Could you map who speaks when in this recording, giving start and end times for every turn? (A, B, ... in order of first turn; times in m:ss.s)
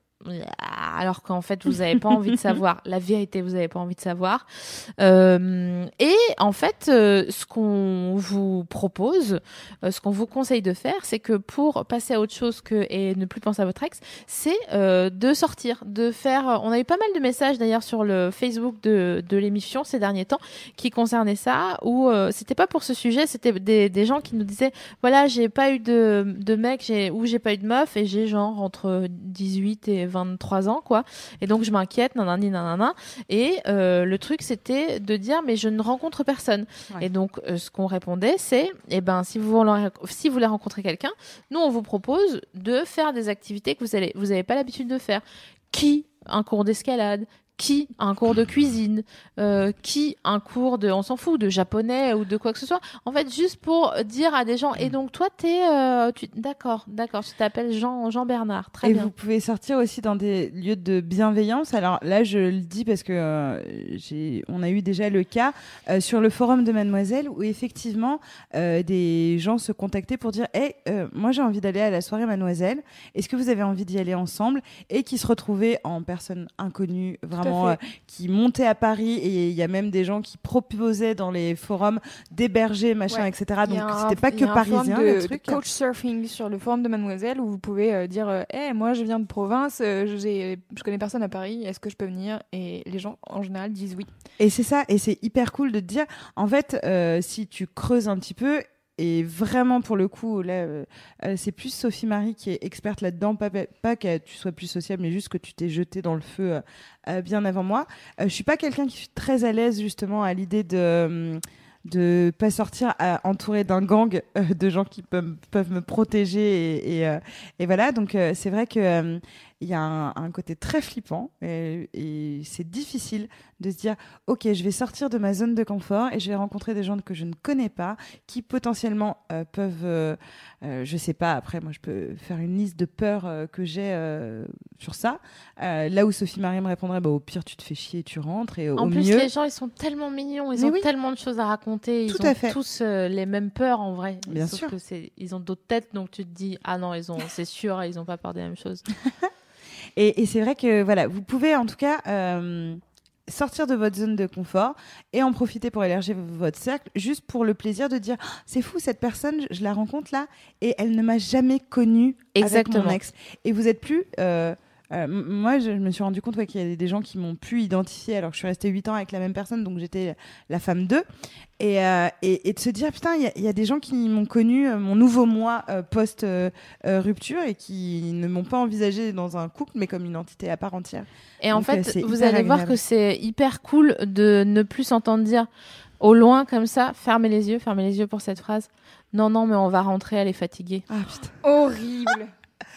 0:00.2-0:59.1 A
0:02.1-0:02.5 B
0:58.8-1:25.6 B
1:17.4-1:17.8 C
1:23.6-1:24.8 A
1:24.6-1:34.1 C
1:34.4-2:19.3 B
2:18.8-2:28.9 A
2:20.6-2:20.9 B
2:22.1-2:22.6 B
2:24.3-2:24.8 B
2:30.0-2:51.0 B
2:42.3-2:43.0 A
2:51.6-3:02.8 B
3:01.4-3:05.5 A
3:06.0-3:10.8 A
3:10.9-3:11.3 B
3:11.4-3:12.3 C